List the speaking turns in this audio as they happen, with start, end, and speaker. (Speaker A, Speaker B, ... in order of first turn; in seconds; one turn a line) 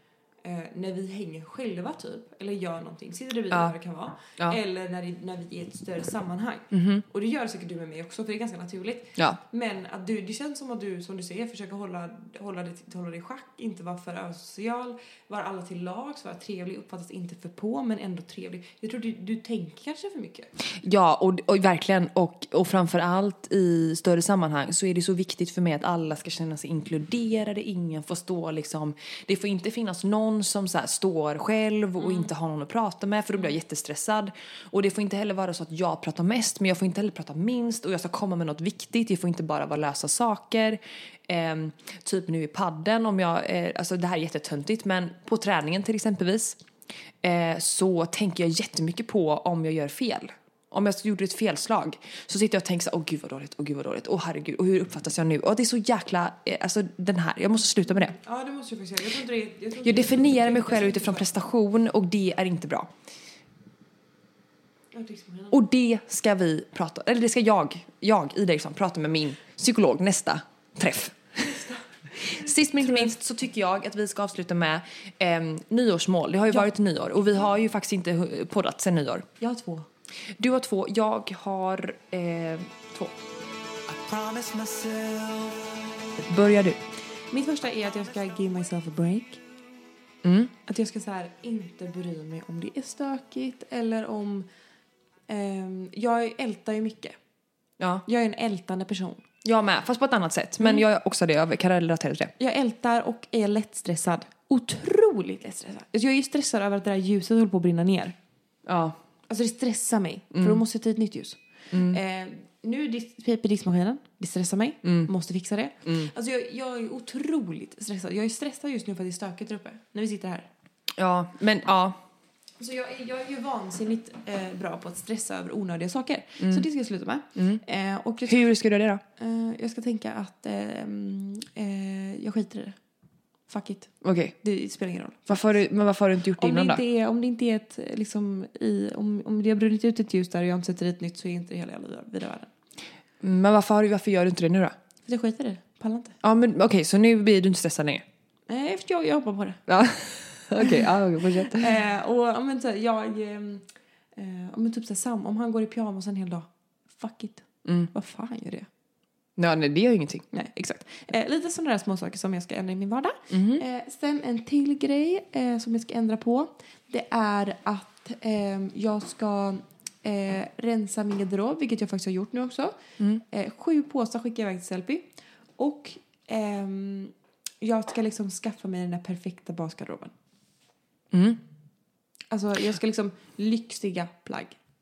Speaker A: 0.4-20.5
Speaker B: 6.7-7.0
Speaker B: 20.8-46.6
Speaker A: 32.0-32.3
Speaker B: 47.2-58.1
Speaker A: 57.9-61.3
Speaker B: 59.8-62.9
Speaker A: 64.9-65.6
Speaker B: 65.5-71.6
Speaker A: 71.4-71.8
Speaker B: 72.2-79.3
Speaker A: 72.3-73.1
Speaker A: 79.4-79.9
Speaker B: 80.4-83.1
Speaker B: 84.0-85.5
Speaker B: 86.1-86.8
Speaker A: 87.3-89.4
Speaker B: 90.2-90.5
Speaker A: 90.6-94.5
Speaker A: 95.3-97.2
Speaker B: 97.8-98.0
Speaker A: 98.0-99.2
Speaker B: 99.4-102.3
Speaker A: 102.4-108.2
Speaker B: 108.7-109.0
Speaker A: 109.3-120.5
Speaker B: 110.3-110.6
Speaker B: 111.7-112.0
Speaker B: 114.8-115.1
Speaker B: 115.8-116.1
Speaker B: 121.0-122.0
Speaker A: 122.6-128.5
Speaker B: 126.4-126.6
Speaker B: 127.3-127.6
Speaker B: 128.2-129.0
Speaker A: 129.2-132.8
Speaker A: 133.5-135.6
Speaker B: 134.0-134.3
Speaker B: 135.3-136.8
Speaker A: 136.3-142.5
Speaker B: 143.2-144.7
Speaker A: 145.0-146.2
Speaker B: 146.2-148.0
Speaker A: 148.5-149.6
Speaker B: 149.7-151.7
Speaker A: 150.6-158.7
Speaker B: 157.6-157.9
Speaker B: 159.4-160.2
Speaker A: 160.3-180.1
Speaker B: 163.3-163.6
Speaker B: 181.1-181.4
Speaker A: 182.3-184.6